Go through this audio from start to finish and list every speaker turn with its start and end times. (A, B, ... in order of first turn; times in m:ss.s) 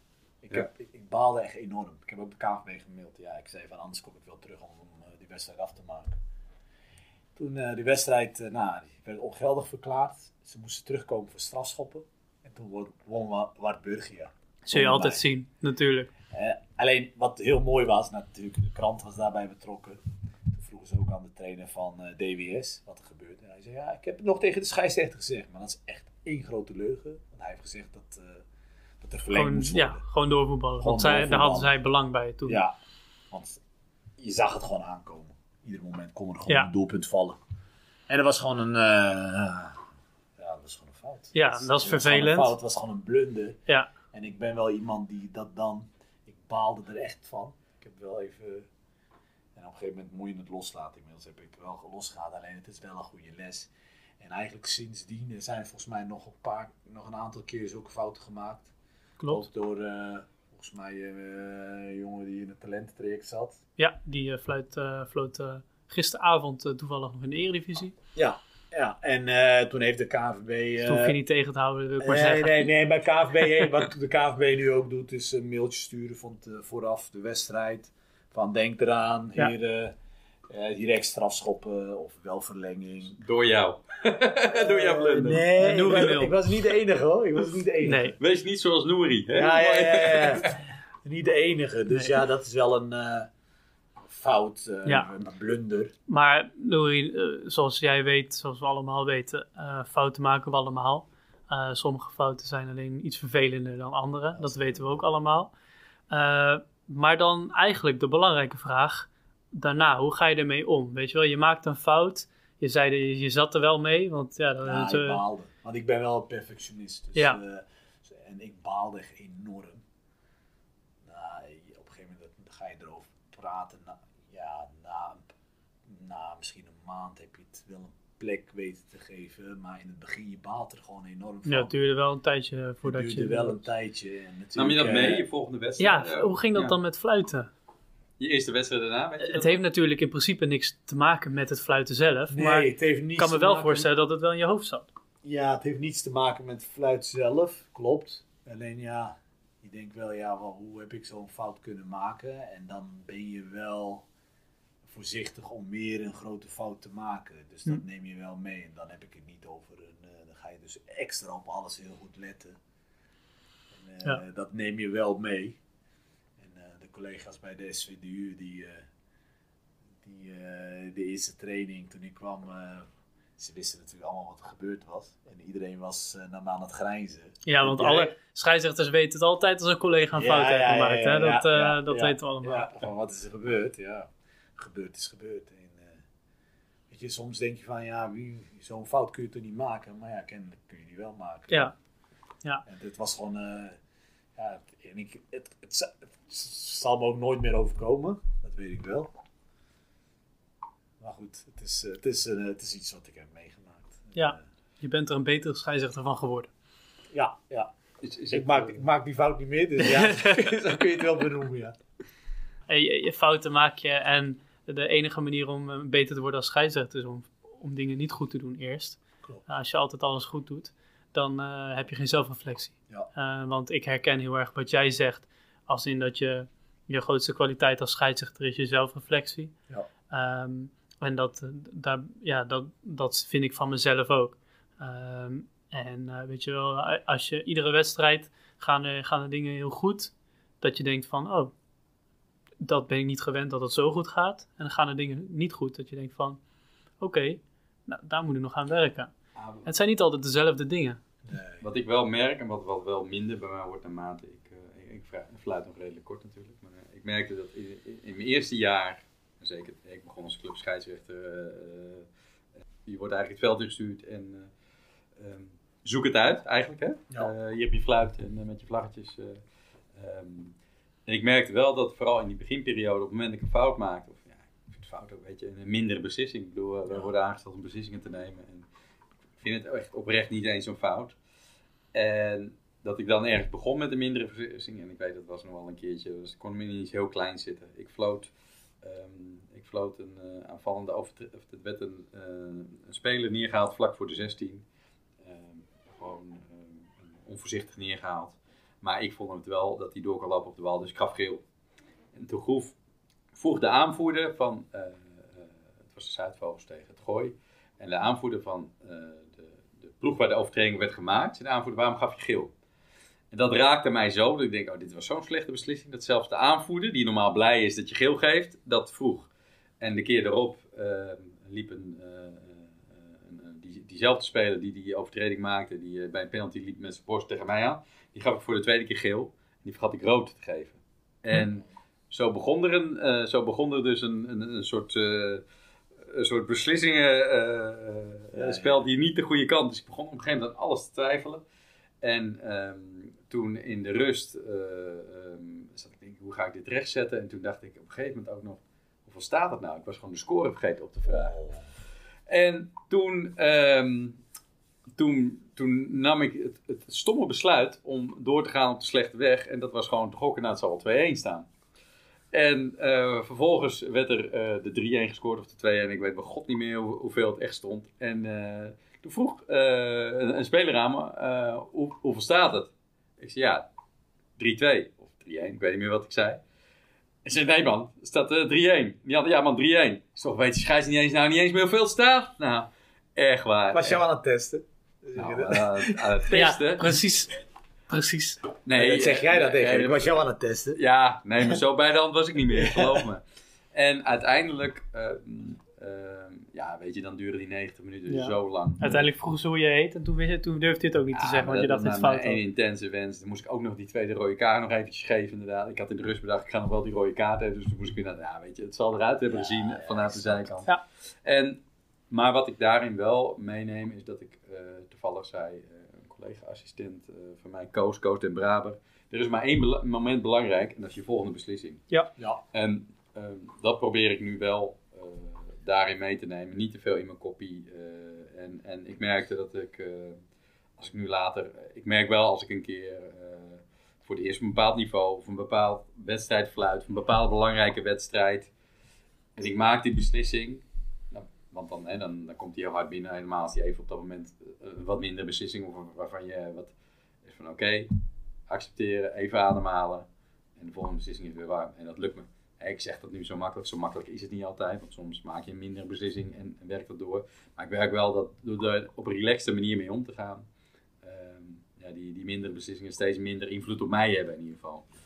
0:00.4-0:06.2 A
0:07.4-0:15.2 A
0:14.6-0:16.1 B
0:16.3-0:28.4 A
0:29.0-0:30.0 A
0:29.3-0:32.6 B
0:30.8-0:31.7 A
0:32.4-0:32.7 A
0:33.3-0:33.6 A
0:34.2-0:37.4 A
0:38.1-0:39.8 A
0:40.4-0:43.6 A
0:41.3-0:42.5 B
0:44.1-0:48.7 A
0:49.5-0:58.7 A
0:59.2-0:59.4 B
0:59.3-1:03.6 A
1:03.8-1:07.9 B
1:08.1-1:11.2 A
1:10.8-1:12.7 B
1:12.0-1:19.9 A
1:20.5-1:23.2 A
1:23.2-1:25.4 C
1:24.4-1:28.2 A
1:25.6-1:26.3 B
1:27.8-1:28.1 B
1:28.2-1:30.5 C
1:29.3-1:33.3 A
1:34.0-1:35.9 A
1:36.1-1:45.5 B
1:44.3-1:45.0 A
1:46.1-1:55.2 B
1:54.6-1:59.8 A
2:01.0-2:05.3 A
2:05.8-2:11.7 A
2:11.4-2:13.6 B
2:12.8-2:15.2 A
2:14.5-2:16.8 C
2:15.8-2:17.5 B
2:18.2-2:19.6 C
2:19.2-2:24.9 B
2:22.3-2:23.9 A
2:25.2-2:34.0 A
2:34.8-2:42.6 A
2:43.7-2:45.6 A
2:46.4-2:48.8 A
2:50.0-2:52.9 A
2:53.4-2:58.1 A
2:57.4-3:02.7 B
3:00.2-3:06.0 A
3:06.9-3:11.7 A
3:11.5-3:11.7 B
3:12.6-3:13.8 A
3:14.4-3:19.1 A
3:21.0-3:24.4 A
3:24.1-3:26.5 B
3:27.1-3:27.7 A
3:28.0-3:28.7 C
3:28.3-3:31.8 A
3:32.7-3:49.5 B
3:50.1-4:01.5 B
4:02.6-4:06.4 B
4:07.0-4:09.1 B
4:09.4-4:09.6 A
4:09.6-4:11.0 B
4:11.2-4:11.6 A
4:11.6-4:22.0 C
4:22.8-4:24.5 C
4:25.2-4:29.4 C
4:30.0-4:30.5 C
4:31.0-4:38.7 C
4:39.4-4:41.2 C
4:41.9-4:48.3 C
4:48.8-4:54.6 C
4:55.2-5:01.4 C
5:02.1-5:02.7 C
5:03.3-5:12.5 C
5:13.3-5:19.3 C
5:19.8-5:35.4 C
5:36.0-5:41.4 C
5:38.3-5:38.8 A
5:42.0-5:51.4 C
5:51.1-5:51.6 A
5:52.3-5:54.2 C
5:54.9-6:01.5 C
6:02.3-6:13.7 C
6:14.4-6:16.4 C
6:17.2-6:24.0 C
6:23.7-6:26.0 A
6:25.2-6:27.0 C
6:26.3-6:27.3 B
6:27.9-6:28.4 B
6:28.6-6:30.2 C
6:28.7-6:30.8 A
6:30.7-6:39.0 C
6:32.6-6:33.0 A
6:38.1-6:42.4 B
6:41.1-6:50.7 C
6:49.3-6:50.6 A
6:51.2-7:01.8 C
7:02.5-7:10.2 C
7:10.8-7:18.5 C
7:19.4-7:26.7 C
7:27.2-7:27.9 C
7:28.5-7:40.4 C
7:41.0-7:44.9 C